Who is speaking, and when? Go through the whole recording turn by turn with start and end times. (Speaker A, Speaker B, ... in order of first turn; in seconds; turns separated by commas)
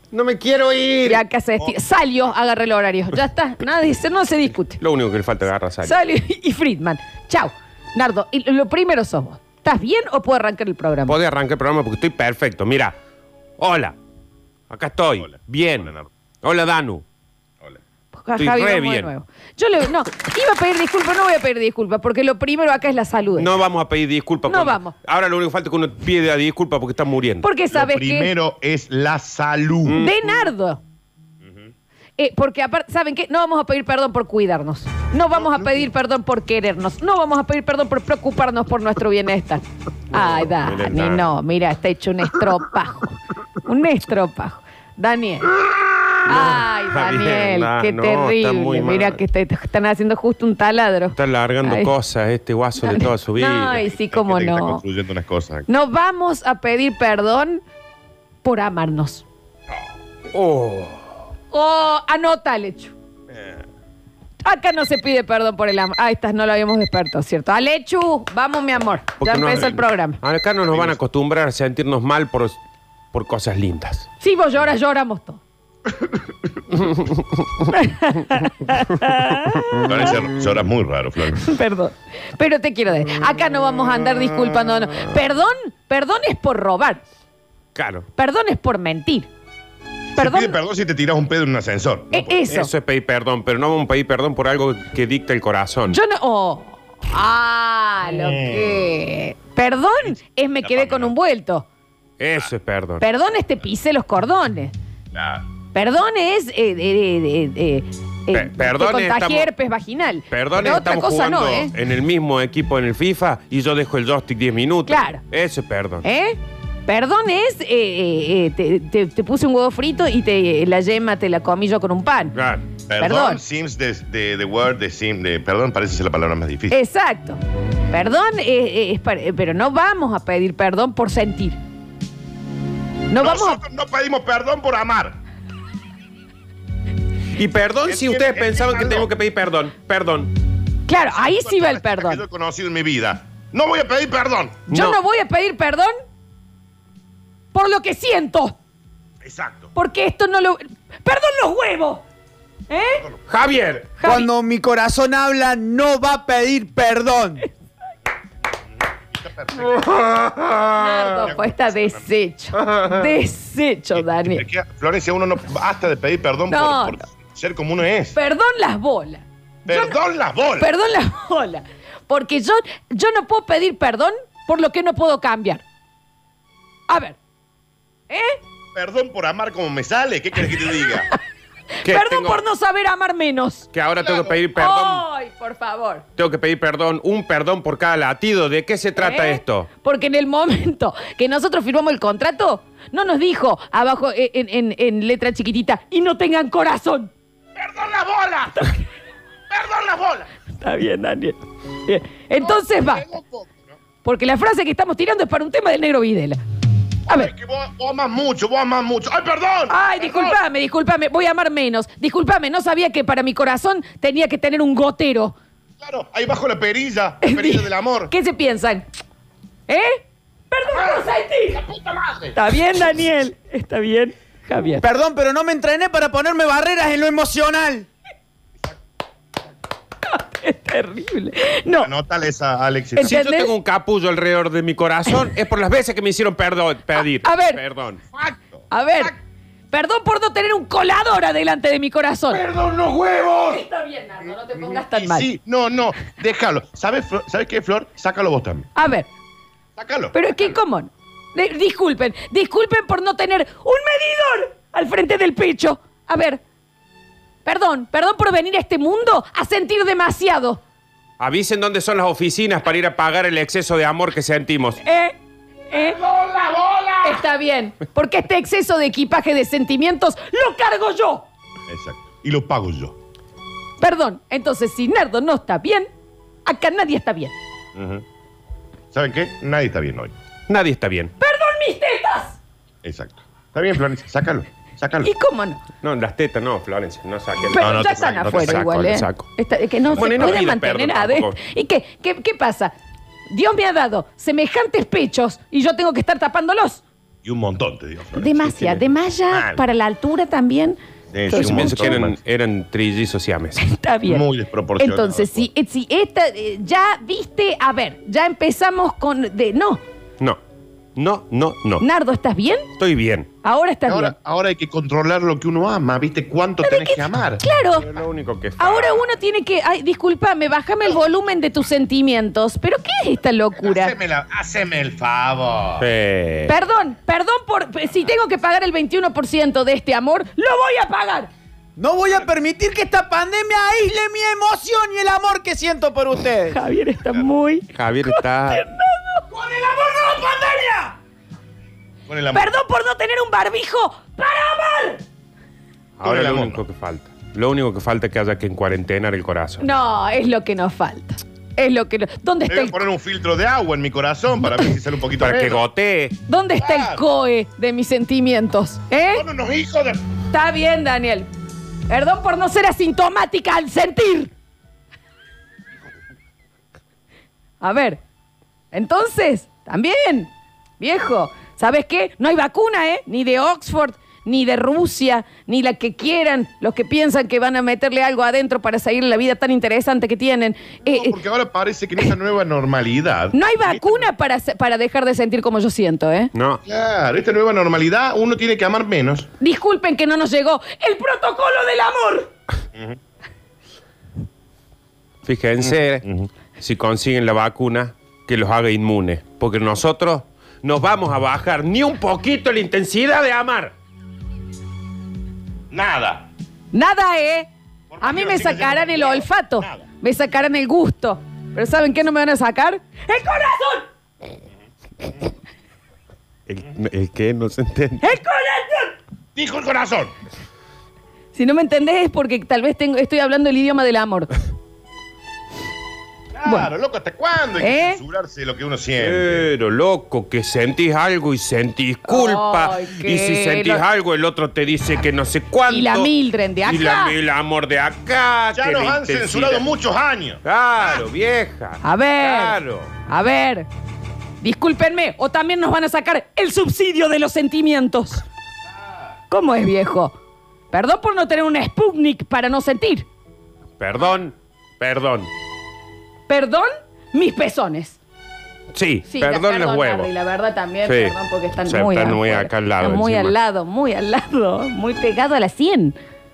Speaker A: 0.1-1.2, Speaker B: 1.0-4.8, Speaker A: 4.8-6.0, Speaker B: 5.8-11.2, Speaker A: 11.1-12.9, Speaker A: 13.6-13.9, Speaker A: 14.7-15.9, Speaker C: 15.2-16.1, Speaker A: 16.4-17.0, Speaker B: 18.1-23.5, Speaker A: 18.4-19.1, Speaker A: 23.3-27.4, Speaker B: 24.5-24.9, Speaker B: 27.4-28.3, Speaker C: 27.7-30.0, Speaker A: 29.8-30.1, Speaker B: 29.9-30.8, Speaker C: 31.4-31.7, Speaker B: 32.2-45.5, Speaker A: 40.1-41.3, Speaker A: 46.2-49.2, Speaker B: 46.2-51.9, Speaker A: 51.1-53.8, Speaker B: 52.8-54.8, Speaker C: 53.9-55.6, Speaker B: 55.7-57.6, Speaker B: 58.4-59.2, Speaker A: 60.3-61.0, Speaker B: 61.5-62.9, Speaker C: 63.3-63.6, Speaker B: 64.4-70.2, Speaker A: 69.2-72.6, Speaker C: 70.7-71.0, Speaker A: 73.1-74.0, Speaker B: 74.2-75.4, Speaker A: 76.7-77.7, Speaker B: 77.7-80.2, Speaker A: 79.5-79.8, Speaker C: 79.9-81.5, Speaker B: 81.3-87.0, Speaker A: 87.7-88.1, Speaker B: 88.2-89.3, Speaker C: 90.2-92.4, Speaker B: 90.2-90.5, Speaker B: 92.1-92.7, Speaker A: 92.5-96.0, Speaker B: 95.9-101.7, Speaker C: 98.2-98.8, Speaker C: 100.6-101.1, Speaker A: 102.2-103.0, Speaker B: 103.0-104.7, Speaker C: 105.1-105.5, Speaker B: 105.7-111.7, Speaker A: 108.3-109.5, Speaker A: 110.3-116.0, Speaker B: 114.9-115.2, Speaker B: 116.0-122.3, Speaker A: 122.3-122.6, Speaker C: 122.9-126.8, Speaker B: 123.0-123.4, Speaker B: 126.7-127.4, Speaker B: 127.9-131.6, Speaker B: 133.1-133.6, Speaker C: 133.2-135.2, Speaker A: 137.3-140.3, Speaker C: 137.8-139.1, Speaker B: 140.9-142.2, Speaker C: 141.1-144.6, Speaker B: 144.7-145.9, Speaker A: 144.7-145.0, Speaker B: 147.5-148.6, Speaker C: 149.2-149.7, Speaker B: 149.7-152.0, Speaker B: 152.7-153.0, Speaker A: 153.3-153.9, Speaker B: 154.0-154.3, Speaker D: 154.0-157.4, Speaker C: 158.8-160.0, Speaker A: 159.8-161.1, Speaker B: 160.8-164.4, Speaker C: 161.0-162.1, Speaker A: 162.6-163.1, Speaker C: 163.9-168.1, Speaker B: 166.5-167.0, Speaker B: 168.1-169.9, Speaker C: 169.7-170.7, Speaker B: 170.6-175.6, Speaker B: 176.9-177.2, Speaker B: 178.1-178.4, Speaker C: 178.7-181.1, Speaker A: 181.8-182.4, Speaker B: 181.8-183.7, Speaker A: 183.7-185.0, Speaker C: 184.0-184.4, Speaker B: 184.5-186.1, Speaker A: 186.2-189.7, Speaker B: 189.0-197.1, Speaker C: 197.6-198.7, Speaker C: 199.5-200.3, Speaker B: 200.5-203.0, Speaker C: 202.4-203.8, Speaker B: 204.0-206.4, Speaker C: 207.1-210.4, Speaker B: 209.7-215.3, Speaker C: 215.8-218.1, Speaker B: 217.2-218.8, Speaker B: 219.7-221.6, Speaker C: 221.5-222.3, Speaker B: 222.3-224.8, Speaker D: 224.8-227.9, Speaker B: 230.1-231.9, Speaker C: 231.8-233.1, Speaker B: 232.9-233.5, Speaker A: 233.0-238.0, Speaker B: 236.9-237.6, Speaker C: 238.1-239.1, Speaker B: 238.7-239.2, Speaker B: 239.7-242.4, Speaker A: 242.5-243.4, Speaker C: 243.0-243.4, Speaker B: 243.5-245.3, Speaker C: 244.7-248.7, Speaker B: 248.8-249.1, Speaker C: 249.8-250.5, Speaker B: 250.1-256.4, Speaker B: 257.4-260.6, Speaker A: 261.2-264.8, Speaker B: 264.8-265.1, Speaker B: 265.7-266.0, Speaker C: 265.7-267.2, Speaker B: 267.0-271.2, Speaker C: 271.7-272.9, Speaker B: 273.8-275.9, Speaker B: 276.4-277.3, Speaker C: 277.7-278.0, Speaker C: 278.9-280.1, Speaker A: 280.5-281.1, Speaker B: 281.2-282.4, Speaker C: 282.8-285.1, Speaker B: 285.0-285.6, Speaker A: 285.8-289.3, Speaker B: 287.5-292.7, Speaker C: 287.6-288.7, Speaker A: 289.9-291.4, Speaker C: 290.1-290.4, Speaker B: 293.3-296.8, Speaker C: 297.2-299.6, Speaker B: 298.1-300.8, Speaker C: 301.1-302.2, Speaker B: 301.3-301.9, Speaker A: 301.3-303.6, Speaker B: 303.6-304.2, Speaker C: 304.1-305.5, Speaker B: 304.8-309.8, Speaker A: 310.9-311.8, Speaker B: 311.8-312.7, Speaker A: 312.8-313.3, Speaker B: 313.4-314.1, Speaker C: 313.9-317.4, Speaker B: 316.6-317.9, Speaker A: 317.8-319.1, Speaker B: 318.6-323.9, Speaker C: 323.6-325.9, Speaker A: 325.8-326.5, Speaker B: 326.5-331.3, Speaker D: 331.8-336.6, Speaker B: 336.5-340.9, Speaker A: 337.7-338.6, Speaker C: 342.1-342.5, Speaker B: 342.3-345.0, Speaker A: 346.0-349.6, Speaker C: 346.0-346.6, Speaker B: 349.6-352.8, Speaker C: 352.5-355.6, Speaker A: 355.2-356.1, Speaker B: 356.2-359.2, Speaker C: 356.6-357.0, Speaker C: 359.1-360.0, Speaker B: 360.3-361.3, Speaker B: 361.9-364.3, Speaker B: 367.6-368.0, Speaker B: 368.7-381.1, Speaker C: 380.9-384.1, Speaker B: 383.3-386.3, Speaker A: 386.3-386.6, Speaker C: 386.6-389.3, Speaker B: 389.4-392.3, Speaker A: 395.2-396.0, Speaker C: 395.6-396.3, Speaker A: 396.6-403.7, Speaker C: 405.7-406.3, Speaker B: 406.7-407.5, Speaker C: 407.9-409.8, Speaker B: 408.0-413.9, Speaker A: 416.5-418.2, Speaker B: 418.0-418.9, Speaker C: 419.4-420.1, Speaker B: 421.3-424.3, Speaker C: 426.4-429.5, Speaker B: 426.4-426.7, Speaker B: 427.6-428.0, Speaker A: 429.0-436.1, Speaker B: 432.1-433.8, Speaker B: 435.7-437.1, Speaker A: 436.6-439.7, Speaker C: 438.5-440.4, Speaker A: 440.4-442.9, Speaker B: 441.8-443.7, Speaker B: 444.4-448.2, Speaker B: 449.3-450.1, Speaker B: 450.7-453.1, Speaker A: 453.8-455.3, Speaker B: 456.3-458.0, Speaker A: 458.7-460.1, Speaker B: 459.1-465.9, Speaker A: 460.9-461.1, Speaker A: 461.7-463.3